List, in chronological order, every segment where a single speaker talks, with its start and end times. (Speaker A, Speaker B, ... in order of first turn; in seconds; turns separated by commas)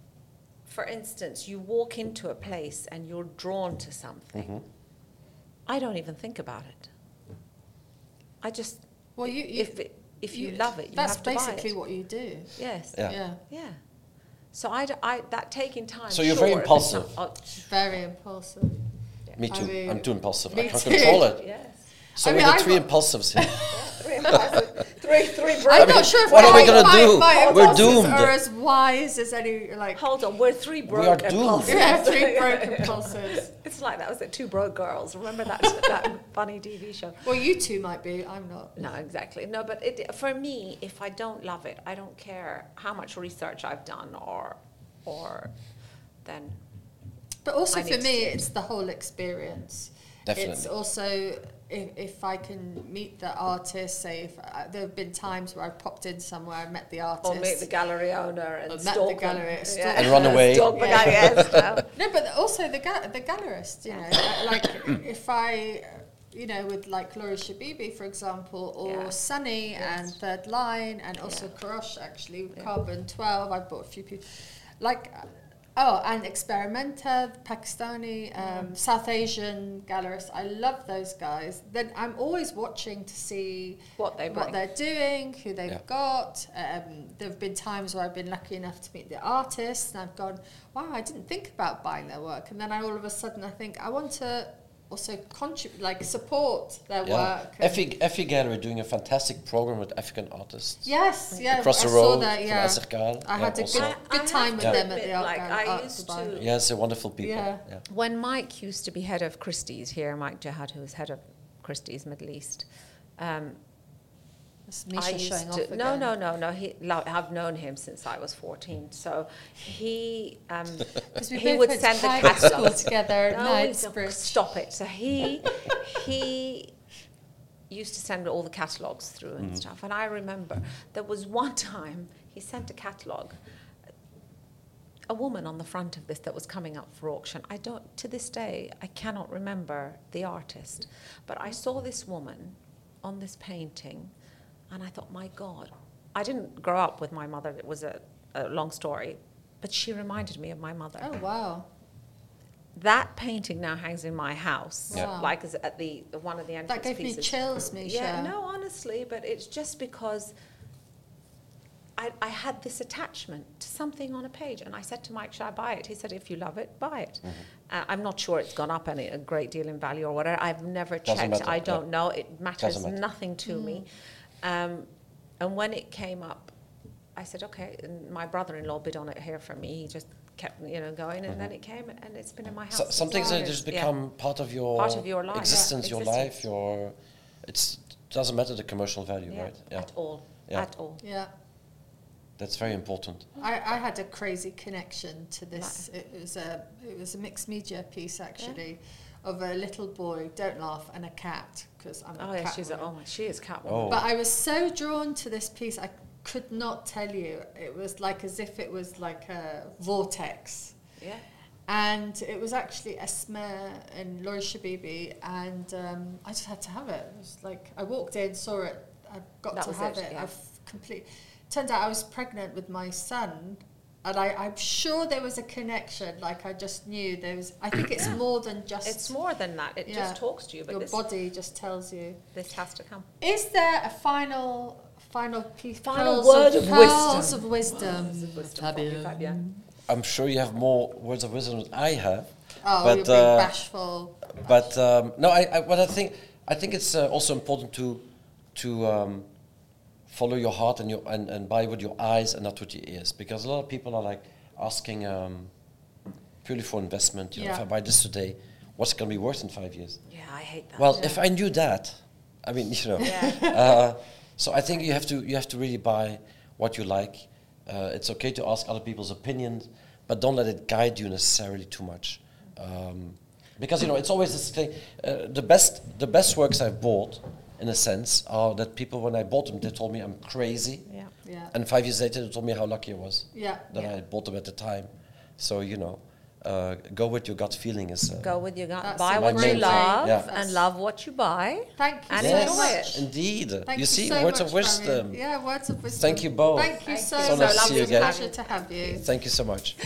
Speaker A: 0.6-4.5, Speaker B: 4.3-4.6, Speaker A: 5.7-6.9, Speaker A: 8.4-8.8, Speaker C: 9.2-9.7, Speaker A: 9.3-11.7, Speaker C: 10.3-12.5, Speaker A: 12.6-13.8, Speaker C: 13.1-13.4, Speaker A: 14.5-17.7, Speaker B: 16.1-17.1, Speaker C: 17.5-18.8, Speaker B: 19.4-21.4, Speaker C: 19.5-21.3, Speaker A: 20.6-21.9, Speaker B: 22.1-23.7, Speaker C: 22.2-24.4, Speaker A: 23.7-28.0, Speaker B: 24.2-24.6, Speaker C: 25.6-30.0, Speaker B: 25.7-28.3, Speaker A: 29.9-37.2, Speaker B: 30.9-32.0, Speaker C: 31.6-33.5, Speaker C: 37.2-38.7, Speaker A: 38.8-45.5, Speaker A: 46.2-46.6, Speaker C: 47.4-57.7, Speaker A: 47.7-48.5, Speaker B: 50.3-50.7, Speaker A: 57.2-61.9, Speaker C: 58.7-74.2, Speaker B: 59.9-61.8, Speaker A: 63.9-64.2, Speaker A: 68.8-69.1, Speaker A: 69.8-70.1, Speaker C: 74.8-97.8, Speaker A: 78.4-78.7, Speaker A: 84.0-84.6, Speaker B: 97.0-103.9, Speaker C: 100.8-106.3, Speaker A: 103.7-106.5, Speaker B: 106.3-107.8, Speaker C: 107.2-107.6, Speaker A: 107.9-112.7, Speaker A: 113.2-113.6, Speaker C: 114.7-116.1, Speaker A: 114.9-126.7, Speaker C: 121.2-124.4, Speaker A: 127.7-133.3, Speaker A: 135.1-144.1, Speaker A: 144.7-151.1, Speaker C: 151.0-151.7, Speaker A: 152.7-160.3, Speaker C: 154.9-155.3, Speaker C: 156.7-158.3, Speaker A: 162.0-173.8, Speaker B: 171.0-171.8, Speaker B: 172.6-173.0, Speaker C: 173.5-173.8, Speaker A: 174.4-174.9, Speaker A: 175.4-176.5, Speaker A: 177.2-183.9, Speaker B: 181.3-181.5, Speaker B: 182.7-189.9, Speaker C: 183.1-183.4, Speaker A: 184.8-186.4, Speaker A: 189.3-191.0, Speaker C: 191.0-191.3, Speaker B: 192.4-193.3, Speaker C: 193.4-202.9, Speaker A: 195.6-195.8, Speaker A: 202.2-204.1, Speaker B: 203.7-204.1, Speaker C: 203.9-210.7, Speaker A: 211.0-211.2, Speaker C: 211.7-229.1, Speaker A: 219.5-220.3, Speaker A: 228.8-231.1, Speaker C: 229.8-232.2, Speaker A: 232.3-233.1, Speaker C: 233.2-239.6, Speaker A: 235.8-239.4, Speaker B: 239.9-243.5, Speaker C: 242.6-244.7, Speaker B: 244.4-248.0, Speaker B: 248.5-249.3, Speaker B: 250.1-255.5, Speaker B: 256.4-260.0, Speaker C: 257.4-257.6, Speaker A: 260.1-261.2, Speaker B: 260.8-280.9, Speaker C: 263.0-263.6, Speaker A: 263.0-263.8, Speaker C: 281.2-281.5, Speaker B: 281.5-288.3, Speaker C: 283.3-283.8, Speaker A: 288.2-293.0, Speaker C: 288.8-290.7, Speaker B: 289.1-290.3, Speaker C: 291.8-293.0, Speaker B: 292.1-295.2, Speaker C: 293.6-299.0, Speaker B: 296.0-298.1, Speaker A: 296.8-298.9, Speaker B: 299.0-299.8